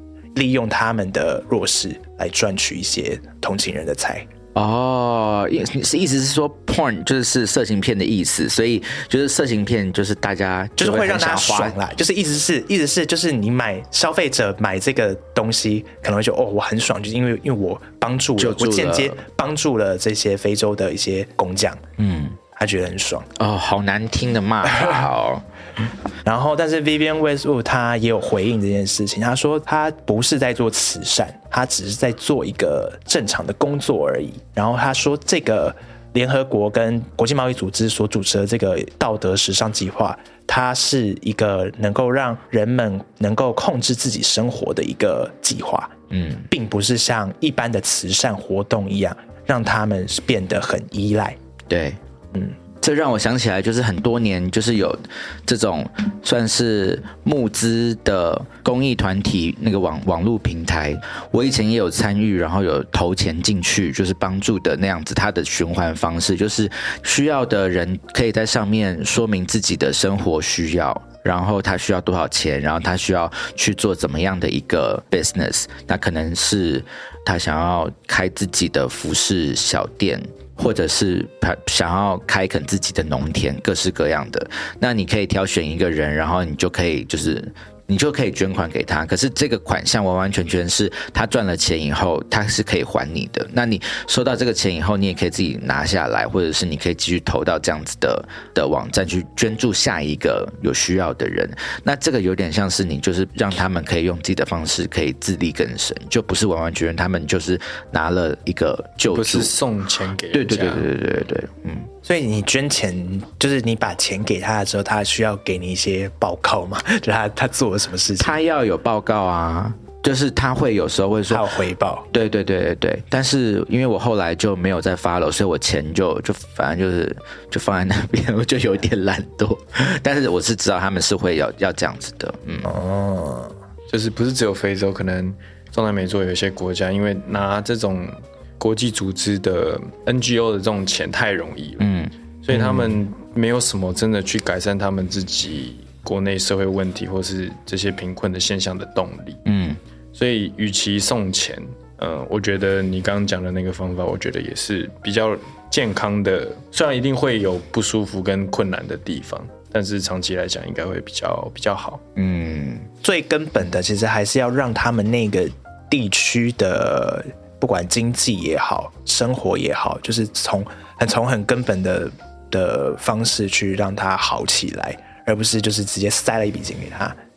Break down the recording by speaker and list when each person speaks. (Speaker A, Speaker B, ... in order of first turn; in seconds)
Speaker A: 0.3-4.3, 10.8-21.8, 22.6-23.3, 26.2-45.9, 46.5-51.4, 112.0-118.4, 121.3-122.1, 132.6-133.5, 163.0-177.2
Speaker B: 4.5-11.8, 18.4-19.2, 22.0-22.4, 23.4-25.5, 46.1-46.5, 51.7-52.0, 52.8-109.5, 110.3-111.9, 118.2-121.5, 122.1-132.7, 141.8-143.0, 149.4-149.8, 162.2-162.9
Speaker C: 109.1-110.9, 133.9-141.9, 142.4-149.4, 150.2-162.0